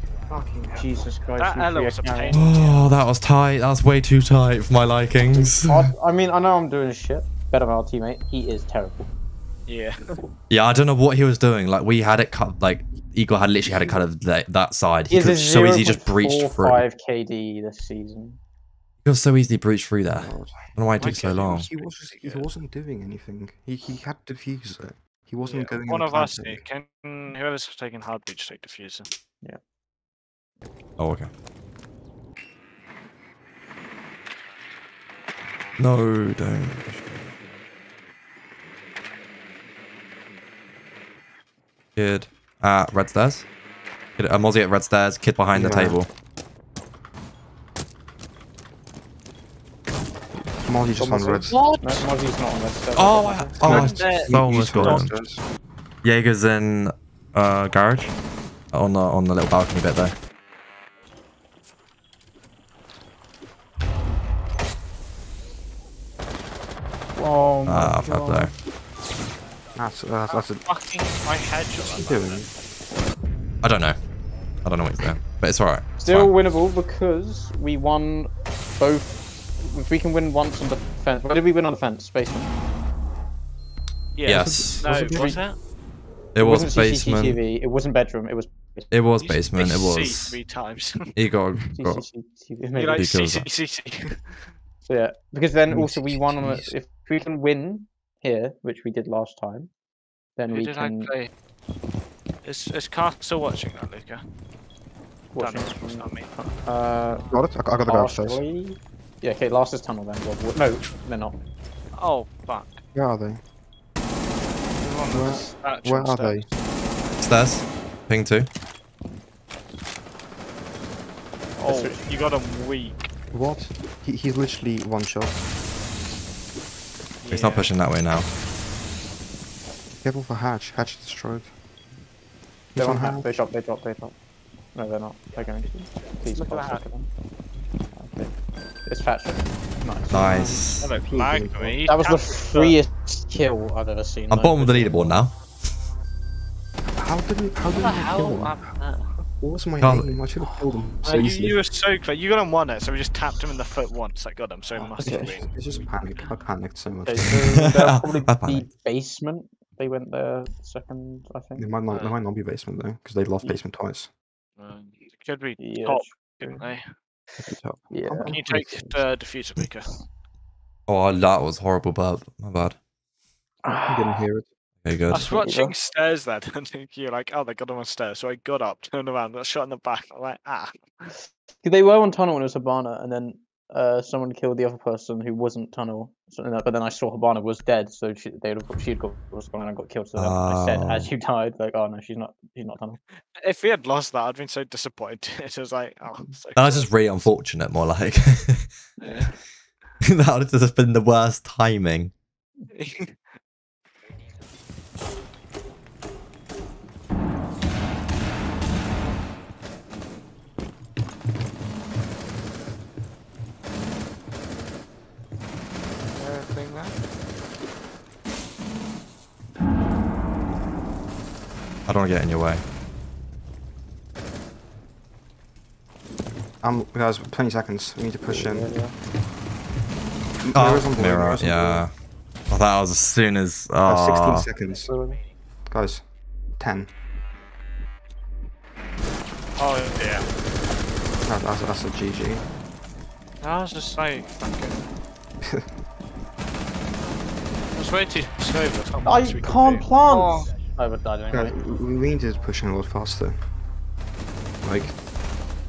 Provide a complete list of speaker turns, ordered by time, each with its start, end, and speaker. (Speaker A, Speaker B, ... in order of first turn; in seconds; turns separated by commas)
Speaker A: 0.3-0.8, Speaker B: 0.8-2.5, Speaker C: 1.4-3.0, Speaker D: 2.3-5.9, Speaker B: 5.3-9.1, Speaker C: 9.7-10.2, Speaker D: 10.5-16.9, Speaker B: 15.1-18.4, Speaker D: 19.1-21.7, Speaker A: 20.1-20.7, Speaker C: 21.0-22.5, Speaker A: 21.3-26.6, Speaker C: 25.4-29.1, Speaker D: 31.0-31.3, Speaker D: 35.8-37.3, Speaker D: 42.0-43.5, Speaker D: 44.2-46.1, Speaker A: 45.5-46.0, Speaker A: 50.7-51.6, Speaker B: 51.0-53.6, Speaker C: 51.5-52.0, Speaker D: 53.0-55.1, Speaker C: 53.6-55.1, Speaker A: 53.6-55.4, Speaker D: 56.0-58.1, Speaker D: 58.7-60.2, Speaker B: 67.2-68.5, Speaker D: 67.7-68.5, Speaker A: 69.8-70.6, Speaker C: 70.3-72.5, Speaker A: 71.8-72.5, Speaker D: 73.6-74.0, Speaker D: 74.6-76.3, Speaker B: 76.0-82.5, Speaker C: 84.2-85.6, Speaker D: 84.3-84.8, Speaker A: 84.5-85.4, Speaker B: 84.9-85.4, Speaker D: 86.3-87.4, Speaker B: 86.4-88.9, Speaker D: 88.9-90.4, Speaker C: 89.2-91.1, Speaker D: 91.2-92.0, Speaker B: 91.7-93.1, Speaker C: 92.8-94.5, Speaker D: 92.9-93.5, Speaker B: 94.9-99.7, Speaker A: 95.7-96.7, Speaker B: 100.4-101.1, Speaker C: 100.5-101.3, Speaker C: 102.4-104.2, Speaker B: 105.3-107.2, Speaker C: 105.4-106.3, Speaker C: 107.1-107.4, Speaker A: 107.3-108.4, Speaker B: 107.8-111.4, Speaker C: 111.9-112.8, Speaker A: 113.0-113.4, Speaker C: 114.8-116.7, Speaker A: 115.1-116.5, Speaker D: 117.2-118.5, Speaker C: 121.6-123.1, Speaker B: 121.6-122.1, Speaker A: 123.3-125.4, Speaker C: 127.2-127.7, Speaker D: 127.3-128.3, Speaker A: 130.0-131.5, Speaker A: 132.7-133.3, Speaker B: 132.8-134.2, Speaker B: 134.8-137.1, Speaker C: 136.3-136.8, Speaker B: 137.9-138.3, Speaker B: 138.8-140.6, Speaker D: 140.1-140.9, Speaker A: 140.1-141.8, Speaker C: 140.8-142.8, Speaker B: 141.9-145.2, Speaker D: 144.3-145.4, Speaker A: 147.0-148.6, Speaker C: 147.8-149.2, Speaker A: 149.4-151.6, Speaker D: 149.8-150.2, Speaker B: 150.4-150.8, Speaker C: 151.0-156.3, Speaker A: 154.7-157.4, Speaker B: 155.0-155.4, Speaker B: 157.1-161.7, Speaker D: 157.6-158.7, Speaker A: 161.6-164.1, Speaker C: 161.9-162.2, Speaker C: 164.6-166.9, Speaker B: 165.6-166.7, Speaker A: 167.4-168.9, Speaker B: 167.9-168.7, Speaker C: 168.2-169.9, Speaker D: 170.9-172.8, Speaker B: 173.6-174.2, Speaker A: 173.9-174.5, Speaker D: 174.8-175.3, Speaker B: 175.1-175.7, Speaker C: 175.1-181.1, Speaker B: 181.6-193.0, Speaker D: 190.2-191.1, Speaker C: 193.4-196.9, Speaker D: 196.6-198.7, Speaker B: 199.0-199.3, Speaker C: 199.0-199.4, Speaker D: 200.0-202.1, Speaker C: 202.7-203.3, Speaker C: 216.1-217.0, Speaker D: 221.9-222.6, Speaker A: 226.6-228.7, Speaker B: 228.3-228.9, Speaker A: 230.4-231.9, Speaker D: 230.5-231.9, Speaker D: 232.5-234.5, Speaker A: 233.9-234.9, Speaker B: 234.8-235.2, Speaker A: 235.7-236.0, Speaker A: 236.6-236.9, Speaker C: 239.6-240.2, Speaker A: 241.2-242.4, Speaker C: 243.4-244.9, Speaker A: 245.4-245.7, Speaker C: 247.8-250.5, Speaker B: 249.1-251.6, Speaker A: 251.3-253.4, Speaker A: 254.6-254.9